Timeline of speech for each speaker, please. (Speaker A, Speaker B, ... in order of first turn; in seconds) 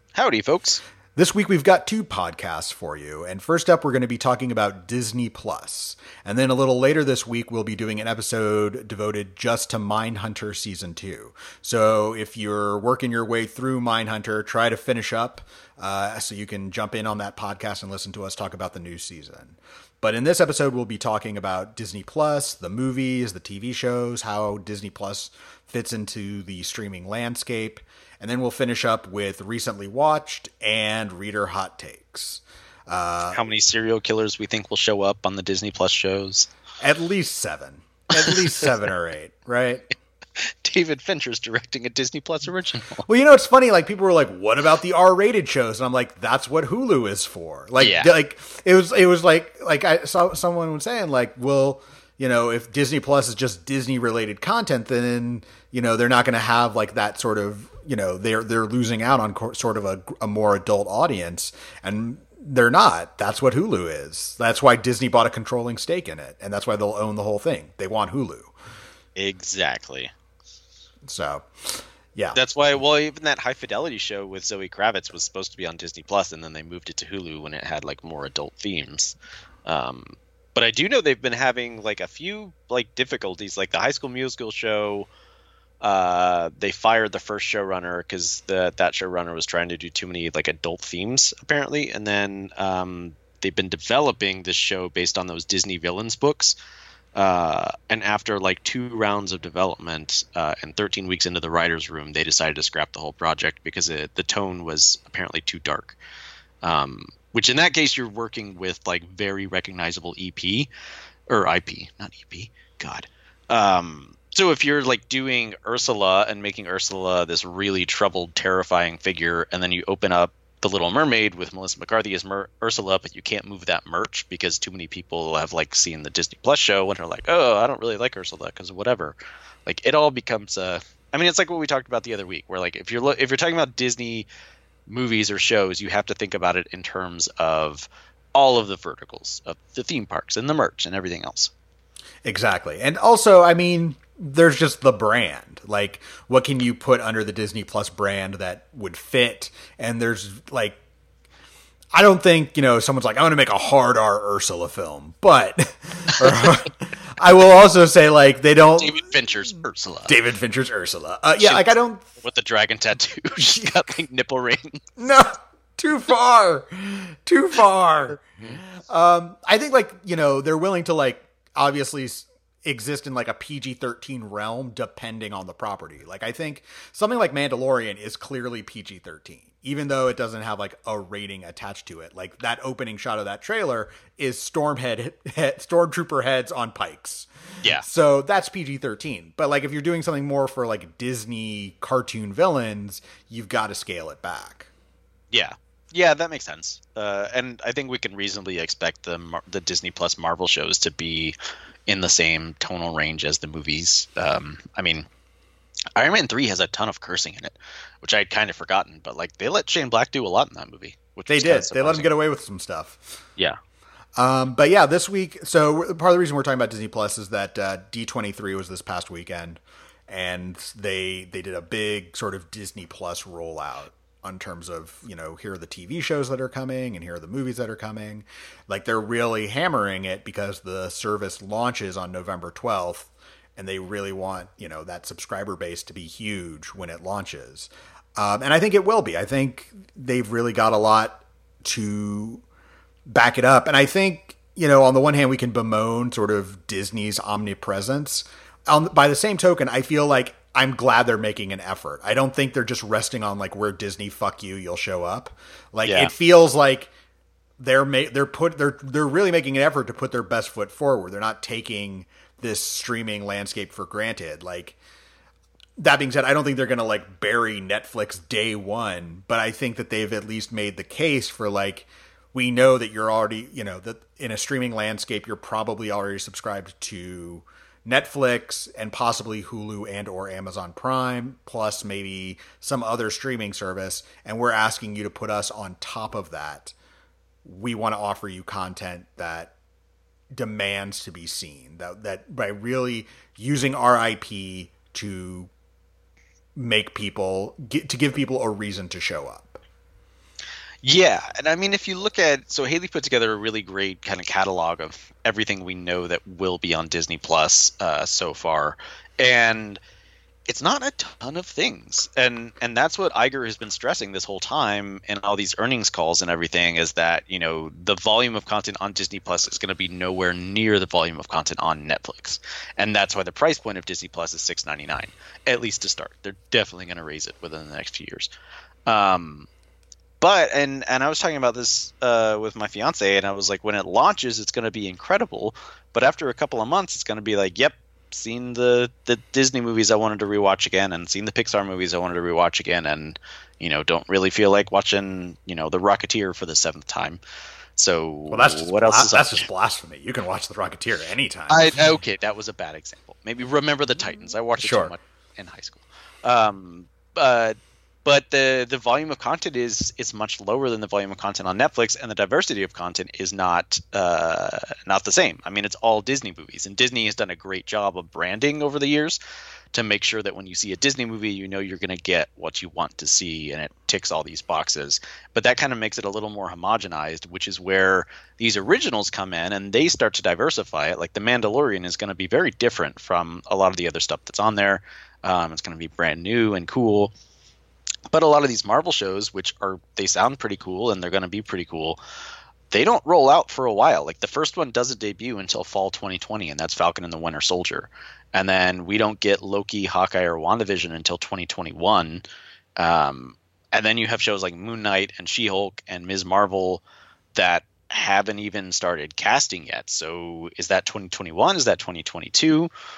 Speaker A: 0.1-0.8, 33.3-36.5, 38.2-38.6, 40.4-43.1, 47.8-48.1, 69.2-70.1, 72.3-79.2, 79.7-85.1, 85.8-96.5, 97.2-106.0, 106.6-110.7, 111.3-134.3, 134.9-141.5, 158.8-160.2, 161.4-161.7, 162.2-164.8, 168.3-168.6, 195.3-201.3, 201.9-205.1, 206.0-212.1, 255.8-256.1, 300.8-309.8, 310.5-328.3, 328.9-329.5, 330.2-347.2, 347.8-349.5, 351.5-369.2, 369.7-387.1, 388.1-392.0, 392.7-402.2, 402.8-406.8, 407.3-412.7
Speaker B: 1.2-33.5, 36.8-39.9, 43.1-68.5, 71.1-72.4, 142.2-150.8, 151.9-159.1, 160.1-162.1, 163.4-163.7, 165.0-194.7, 211.3-213.2, 214.2-242.4, 243.1-256.9, 257.6-264.8, 265.8-286.7, 287.4-289.5, 290.3-295.5, 296.6-299.6, 348.3-351.9, 354.2-354.9